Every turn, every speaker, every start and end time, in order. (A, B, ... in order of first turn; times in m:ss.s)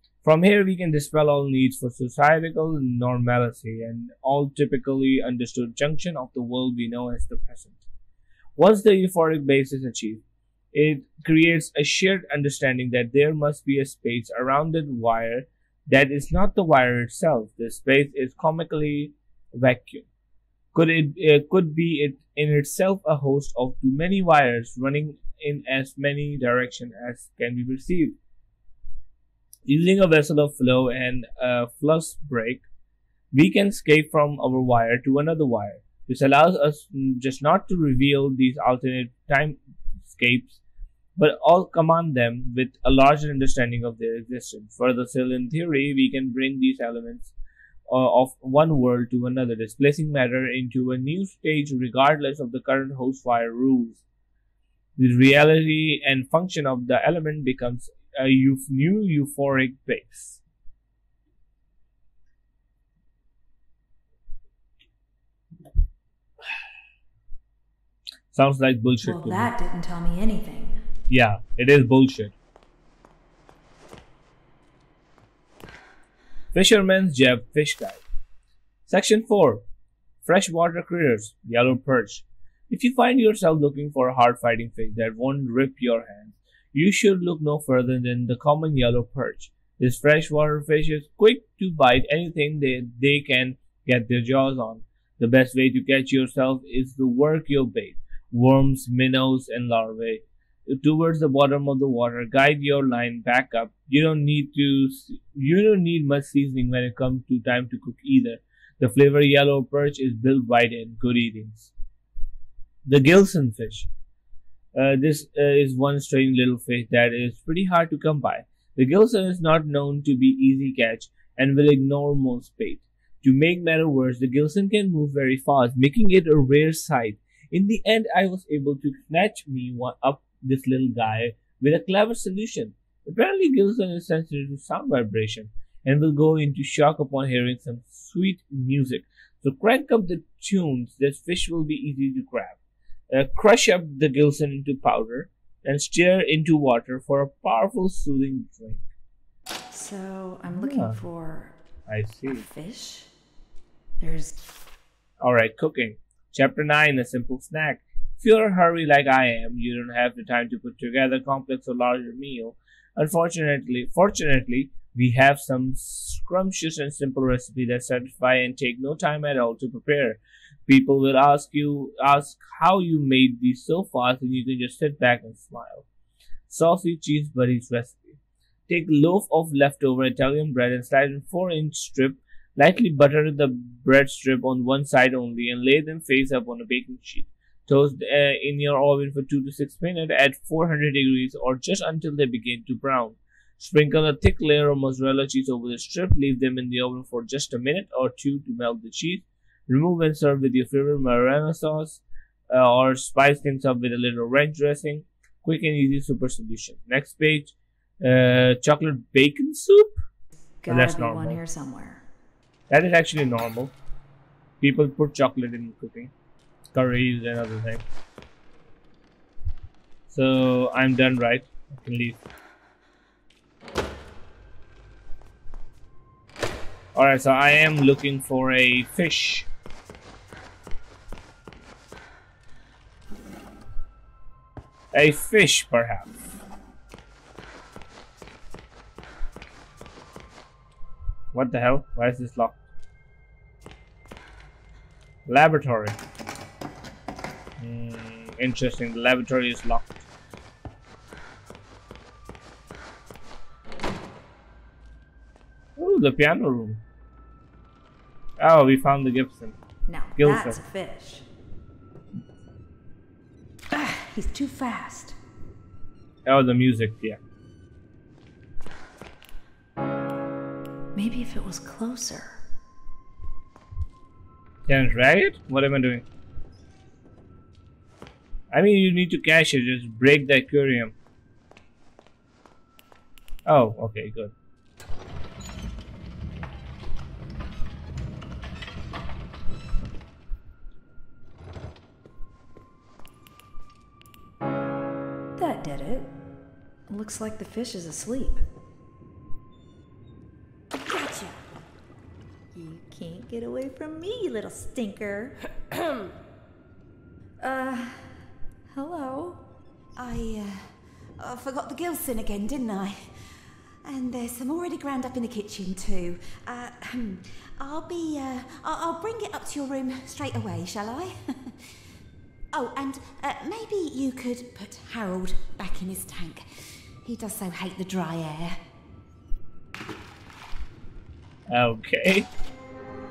0:00.2-0:07.8 A
0:08.6-0:10.2 A
0:10.7-0:20.1 A
0:20.7-0:28.2 A
0:29.7-0:32.6 A
0:33.3-0:40.6 A
0:41.2-0:47.3 A
0:47.9-0:54.0 A
0:55.0-1:00.4 A
1:08.3-1:09.5 A
1:09.0-1:10.8 B
1:11.1-1:12.3 A
1:16.5-1:18.0 A
1:18.9-1:19.6 A
1:20.2-1:51.7 A
1:52.8-1:53.9 A
1:54.7-2:22.6 A
2:23.1-2:28.8 A
2:29.7-2:31.6 B
2:30.5-2:31.0 A
2:31.9-2:32.4 A
2:32.2-2:33.1 B
2:34.0-2:34.4 B
2:35.2-2:55.8 A
2:56.5-2:58.2 A
2:58.7-3:29.9 A
3:30.6-3:32.0 B
3:30.7-3:31.4 A
3:32.7-3:33.7 A
3:34.6-3:36.1 A
3:36.7-3:37.8 A
3:40.1-3:42.2 A
3:46.9-3:49.5 A
3:54.9-3:56.1 A
4:01.3-4:02.6 A
4:05.2-4:06.0 A
4:07.6-4:09.9 A
4:15.8-4:16.8 A
4:18.4-4:19.6 A
4:19.9-4:21.2 B
4:20.2-4:20.6 A
4:23.7-4:25.2 B
4:26.2-4:27.2 A
4:30.9-4:32.4 B
4:34.7-4:36.0 A
4:38.5-4:40.9 A
4:43.4-4:44.3 A
4:55.4-4:56.1 B
4:56.9-4:58.4 B
5:00.8-5:01.4 C
5:02.6-5:05.0 B
5:04.6-5:05.3 C
5:07.4-5:08.2 B
5:08.7-5:09.4 B
5:10.0-5:21.8 C
5:22.5-5:28.6 C
5:31.5-5:32.3 A